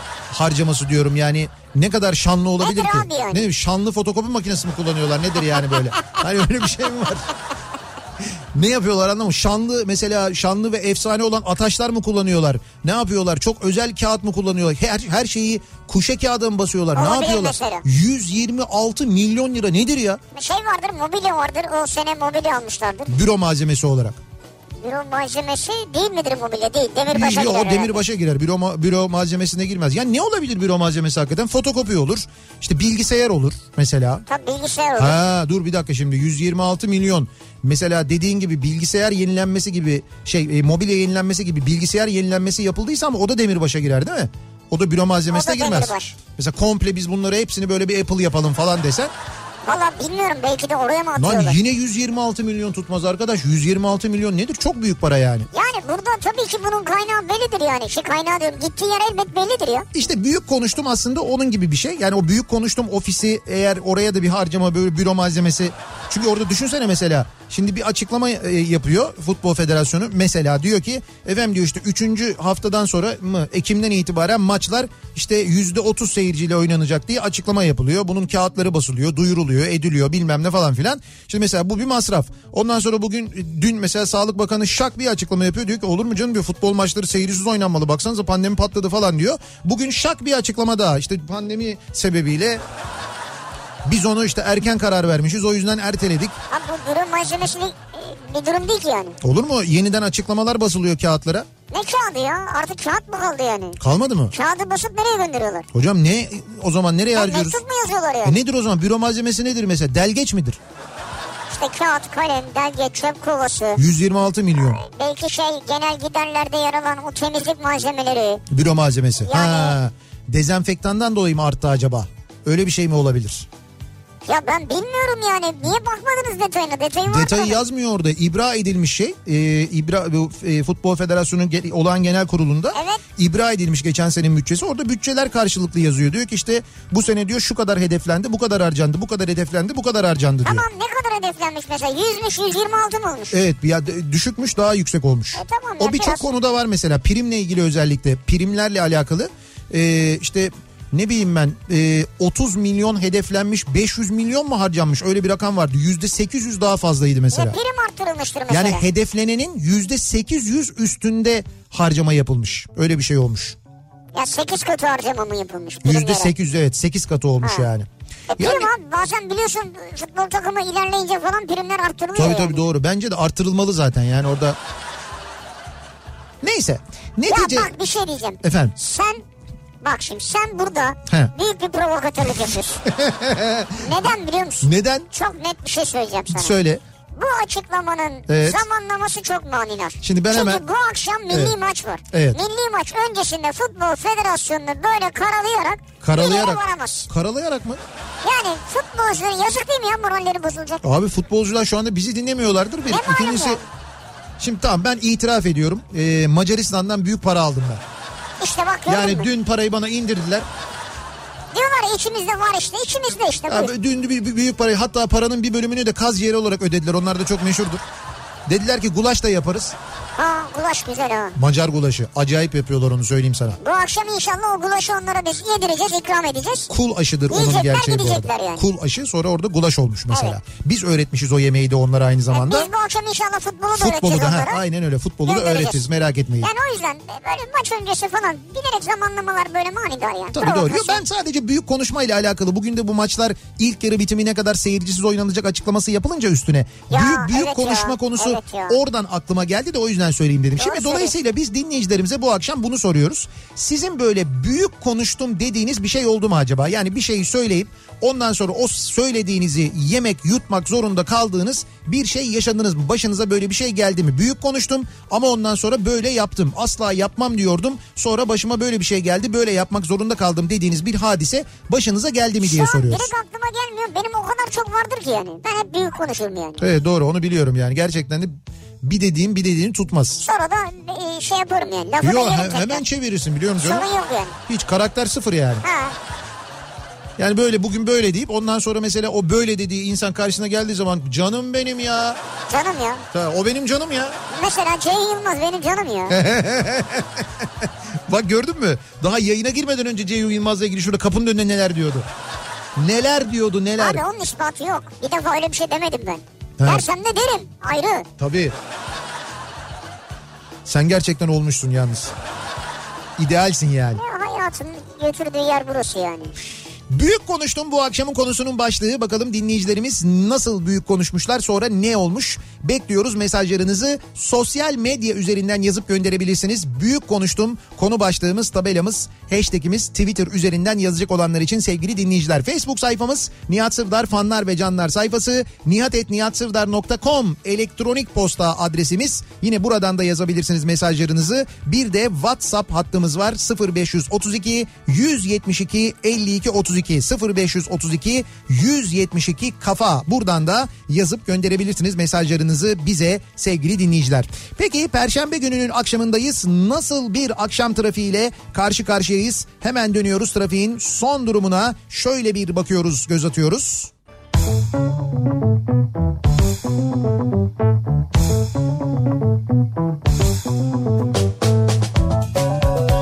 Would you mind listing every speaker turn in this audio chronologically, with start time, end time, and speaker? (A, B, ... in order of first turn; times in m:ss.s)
0:00.3-0:07.3 A
0:02.6-0:03.5 B
0:08.5-0:20.2 A
0:16.9-0:17.8 B
0:20.3-0:23.1 B
0:23.1-0:24.2 A
0:24.8-0:28.0 B
0:27.1-0:34.2 A
0:34.3-0:35.2 B
0:35.0-0:49.1 A
0:45.3-0:46.1 B
0:49.6-0:51.6 B
0:51.2-0:55.5 A
0:55.5-0:59.9 B
0:59.9-1:32.6 A
1:33.8-1:36.4 A
1:36.5-1:39.2 B
1:39.2-1:41.4 A
1:41.7-1:43.8 B
1:43.8-1:44.3 A
1:44.3-1:45.7 B
1:45.7-1:47.6 A
1:47.2-1:48.4 B
1:48.2-1:50.6 A
1:51.5-1:53.8 B
1:53.8-1:54.8 A
1:54.6-1:58.4 B
1:58.5-2:03.5 A
1:59.2-1:59.8 B
2:04.2-2:07.6 B
2:07.0-2:20.6 A
2:12.7-2:13.0 B
2:20.4-2:23.4 B
2:23.3-2:37.6 A
2:25.3-2:26.2 B
2:37.3-2:38.8 B
2:38.5-2:43.6 A
2:44.1-2:46.3 B
2:45.8-2:48.7 A
2:47.4-2:47.7 B
2:48.3-2:52.6 B
2:52.1-2:54.6 A
2:56.4-2:57.7 A
2:57.3-2:59.2 B
2:58.4-2:58.7 A
2:59.8-3:02.8 B
3:02.8-3:03.9 A
3:03.8-3:06.5 B
3:04.6-3:05.1 A
3:06.3-3:06.8 A
3:07.1-3:17.1 B
3:08.3-3:08.6 A
3:10.0-3:10.6 A
3:11.3-3:11.6 A
3:12.1-3:12.4 A
3:16.0-3:17.8 A
3:18.2-3:20.8 B
3:20.8-3:23.6 A
3:22.9-3:23.6 B
3:24.4-3:27.8 A
3:28.4-3:29.3 B
3:28.9-3:30.4 A
3:31.5-3:33.7 B
3:33.5-3:37.8 A
3:38.5-3:39.8 A
3:40.2-3:41.4 B
3:41.4-3:43.6 A
3:43.6-3:46.7 B
3:46.7-3:52.7 A
3:47.3-3:48.6 B
3:50.1-3:50.4 B
3:52.3-3:54.6 B
3:53.7-3:56.5 A
3:55.2-3:55.8 B
3:56.4-4:01.0 B
4:00.3-4:33.1 A
4:06.9-4:08.8 B
4:10.6-4:11.1 B
4:32.4-4:36.6 B
4:36.6-4:40.2 A
4:40.2-4:42.8 B
4:42.0-4:43.9 A
4:43.6-4:44.4 B
4:44.5-4:45.6 A
4:45.6-4:46.0 B
4:47.2-4:52.2 A
4:52.5-4:53.0 B
4:53.1-4:54.2 A
4:54.3-4:56.2 B
4:56.1-5:02.1 A
5:02.8-5:04.0 A
5:03.8-5:08.0 B
5:06.6-5:06.8 A
5:08.2-5:08.5 A
5:10.6-5:12.1 A
5:13.2-5:14.0 A
5:14.0-5:16.3 B
5:16.9-6:03.9 A